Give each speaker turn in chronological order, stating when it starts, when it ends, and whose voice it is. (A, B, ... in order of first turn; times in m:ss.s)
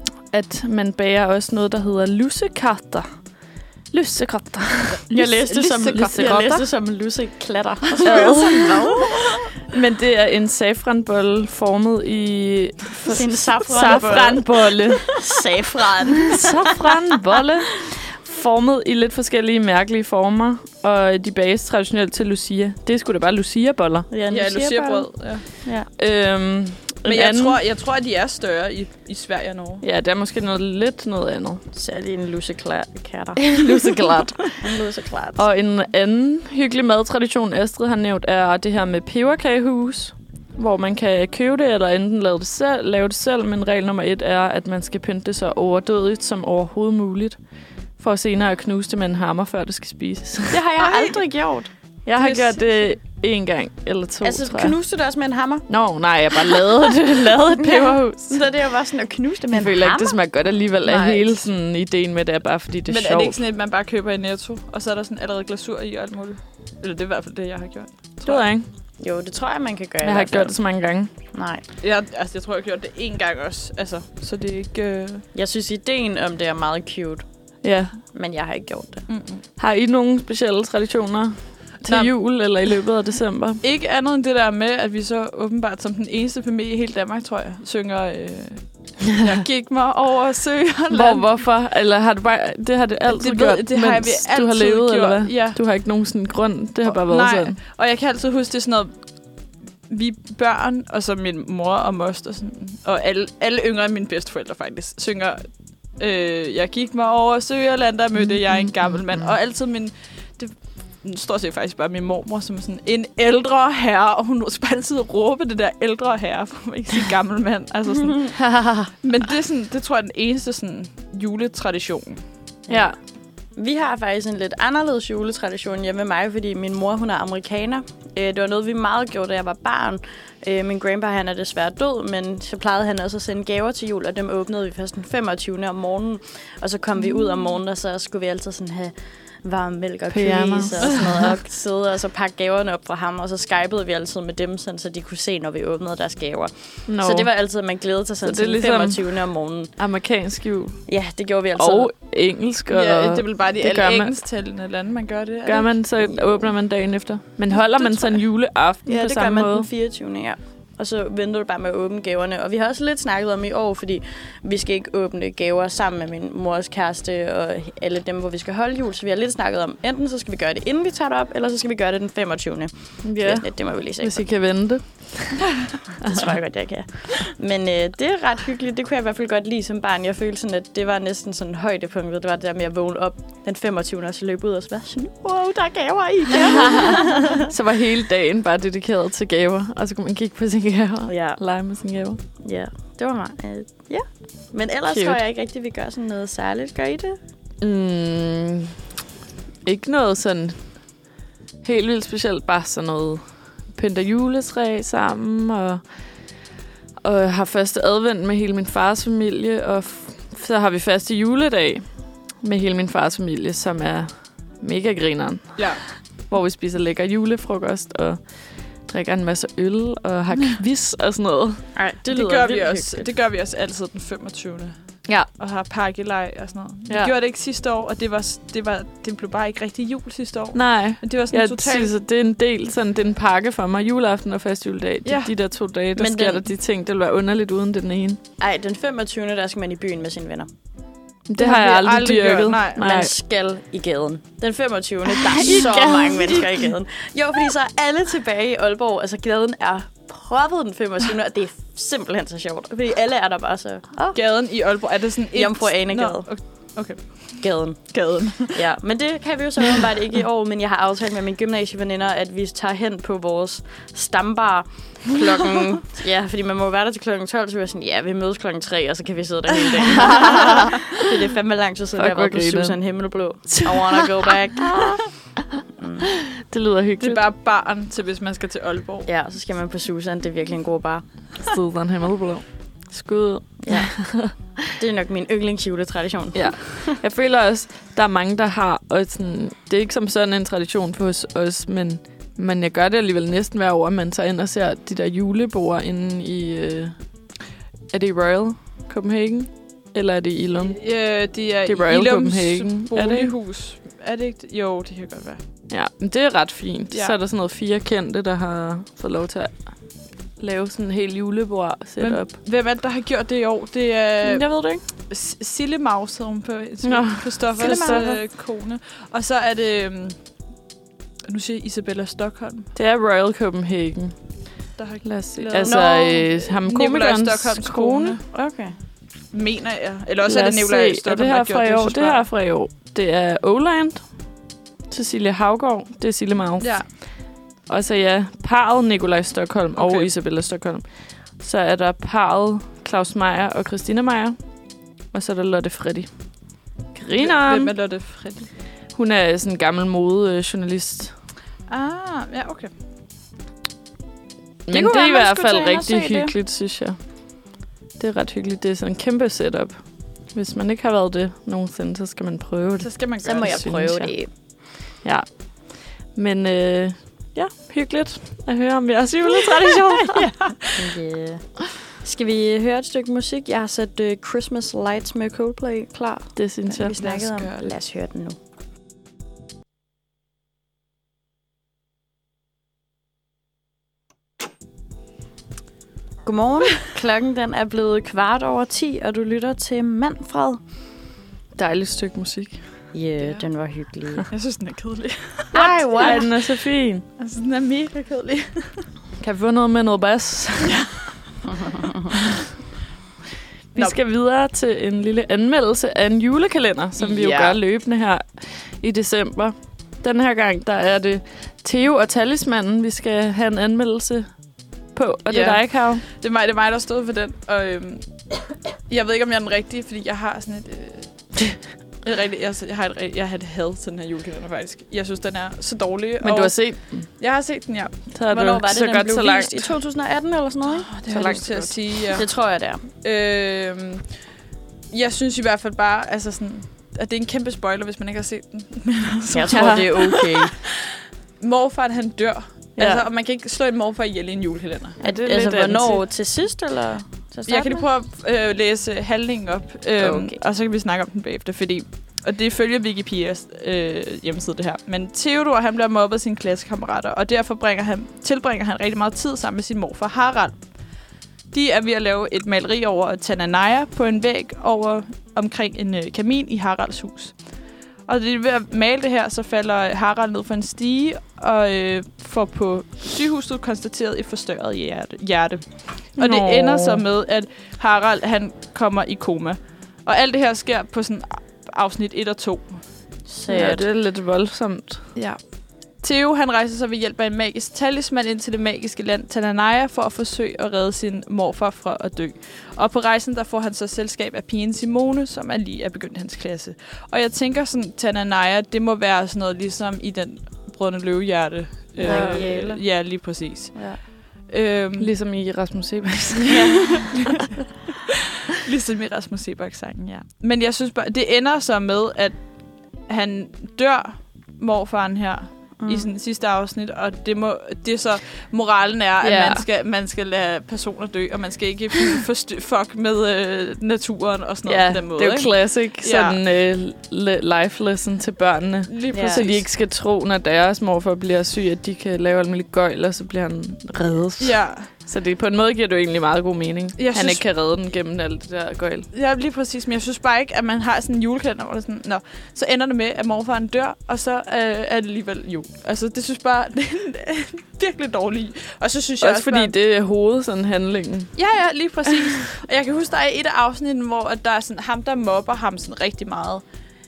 0:00.3-0:03.0 A
0:03.9-0:06.6 A
0:05.1-0:09.3 B
0:08.0-0:08.8 A
0:09.6-0:15.2 A
0:13.0-0:16.9 B
0:16.2-0:24.1 A
0:24.1-0:25.9 B
0:24.3-0:25.4 C
0:26.0-0:27.6 A
0:27.0-0:29.8 C
0:29.8-0:31.6 A
0:31.7-0:34.0 B
0:33.4-0:34.6 A
0:34.6-0:35.4 B
0:35.4-0:47.4 A
0:48.0-0:50.6 A
0:50.5-0:51.7 B
0:50.8-0:51.2 C
0:52.0-0:54.7 A
0:52.2-0:52.6 C
0:54.2-0:55.7 B
0:55.7-0:58.4 A
0:57.6-1:00.2 B
0:59.5-1:03.4 A
1:00.8-1:01.4 C
1:02.9-1:08.4 C
1:08.2-1:08.7 A
1:09.0-1:10.5 B
1:10.0-1:11.1 A
1:11.3-1:11.6 B
1:11.8-1:15.2 C
1:15.3-1:17.2 B
1:17.6-1:18.0 A
1:18.1-1:19.0 B
1:19.1-1:19.4 C
1:19.6-1:23.6 A
1:21.8-1:22.1 C
1:23.6-1:31.3 C
1:30.9-1:37.6 A
1:33.1-1:35.6 C
1:36.8-1:39.1 C
1:39.9-2:02.2 C
1:58.4-1:58.9 A
2:02.7-2:02.9 B
2:02.7-2:03.0 A
2:03.5-2:29.7 B
2:20.1-2:21.3 A
2:26.9-2:27.3 A
2:28.2-2:29.1 A
2:29.8-2:30.9 A
2:30.9-2:31.9 B
2:31.6-2:34.1 A
2:32.7-2:35.8 C
2:35.4-2:39.7 A
2:37.5-2:38.2 C
2:38.8-2:54.3 B
2:53.0-2:55.4 A
2:56.0-3:07.5 B
3:06.6-3:12.2 A
3:11.1-3:11.4 B
3:12.4-3:17.2 B
3:14.9-3:15.2 A
3:17.6-3:18.7 A
3:19.6-3:20.6 A
3:21.6-3:23.2 A
3:23.7-3:25.8 A
3:27.0-3:31.8 A
3:32.4-3:35.7 A
3:35.6-3:35.8 C
3:36.3-3:38.3 A
3:38.8-3:41.6 A
3:41.8-3:43.1 B
3:42.1-3:51.9 C
3:50.5-3:58.2 A
3:55.0-3:55.3 C
3:56.0-3:56.4 B
3:58.4-4:00.5 B
4:01.3-4:03.1 A
4:01.4-4:02.9 C
4:02.8-4:14.2 B
4:05.4-4:06.4 A
4:05.4-4:05.9 C
4:14.1-4:18.6 C
4:15.3-4:16.3 B
4:17.4-4:35.0 B
4:30.2-4:30.6 A
4:32.0-4:32.8 A
4:33.6-4:34.0 A
4:34.6-4:35.0 A
4:35.8-4:36.1 B
4:36.4-4:37.2 A
4:37.0-4:39.1 C
4:39.0-4:41.0 B
4:41.4-4:44.3 A
4:43.6-4:43.9 B
4:44.7-4:47.0 B
4:46.3-4:57.0 A
4:57.9-5:00.8 A
5:00.7-5:05.4 C
5:01.6-5:03.3 A
5:05.7-5:09.7 A
5:06.9-5:07.2 C
5:10.4-5:12.3 A
5:12.0-5:20.2 C
5:14.2-5:14.8 A
5:16.8-5:18.2 A
5:17.6-5:18.1 B
5:21.3-5:22.7 C
5:22.7-5:24.2 A
5:24.8-5:28.2 C
5:25.0-5:28.2 A
5:25.6-5:26.0 B
5:28.3-5:28.7 B
5:29.3-5:32.2 C
5:30.2-5:34.1 A
5:34.9-5:37.1 A
5:36.6-5:36.9 C
5:37.7-5:40.8 A
5:39.7-5:40.1 C
5:41.4-5:44.4 A
5:45.1-5:46.1 A
5:46.9-5:47.7 A
5:47.2-5:48.5 C
5:48.9-5:51.1 A
5:51.7-5:52.7 C
5:54.6-5:57.0 A
5:54.7-5:56.3 B
5:58.0-5:59.8 A
6:00.3-6:04.1 A
6:02.8-6:03.7 C
6:03.2-6:04.3 B
6:05.0-6:10.3 A
6:10.6-6:18.4 B
6:16.4-6:16.9 A
6:17.0-6:17.7 C
6:26.2-6:30.6 B
6:31.5-6:32.6 A
6:32.9-6:34.2 B
6:34.3-6:36.3 C
6:35.5-6:36.3 B
6:35.5-6:37.0 A
6:37.2-6:38.9 C
6:39.2-6:40.8 A
6:40.6-6:41.1 C
6:43.7-6:54.3 A
6:47.0-6:47.6 C
6:54.9-6:56.0 A
6:55.3-6:58.1 C
6:58.9-7:08.0 C
7:06.2-7:07.1 A
7:08.1-7:09.7 A
7:08.3-7:11.3 B
7:10.7-7:12.2 C
7:11.1-7:12.2 A
7:12.1-7:12.8 B
7:13.0-7:14.1 C
7:14.9-7:20.7 C
7:19.3-7:20.5 B
7:19.5-7:20.2 A
7:21.4-7:25.0 C
7:22.8-7:23.0 A
7:25.0-7:26.0 A
7:25.0-7:27.8 B
7:27.5-7:40.7 C
7:30.0-7:30.4 B
7:41.5-7:47.4 C
7:48.1-8:02.8 C
7:56.2-7:57.0 A
8:03.3-8:03.8 B
8:03.5-8:05.0 A
8:06.0-8:25.1 C
8:22.0-8:22.5 A
8:22.0-8:22.8 B
8:23.7-8:24.0 B
8:25.0-8:26.9 A
8:26.5-8:27.6 C
8:28.5-8:32.5 C
8:33.0-8:46.4 C
8:35.8-8:36.1 B
8:39.2-8:39.6 A
8:44.6-8:59.1 A
8:48.9-8:49.6 C
8:49.1-8:49.4 B
8:54.4-8:54.9 C
8:57.0-8:57.4 C
8:59.1-9:09.7 C
9:09.2-9:11.3 A
9:11.4-9:16.6 C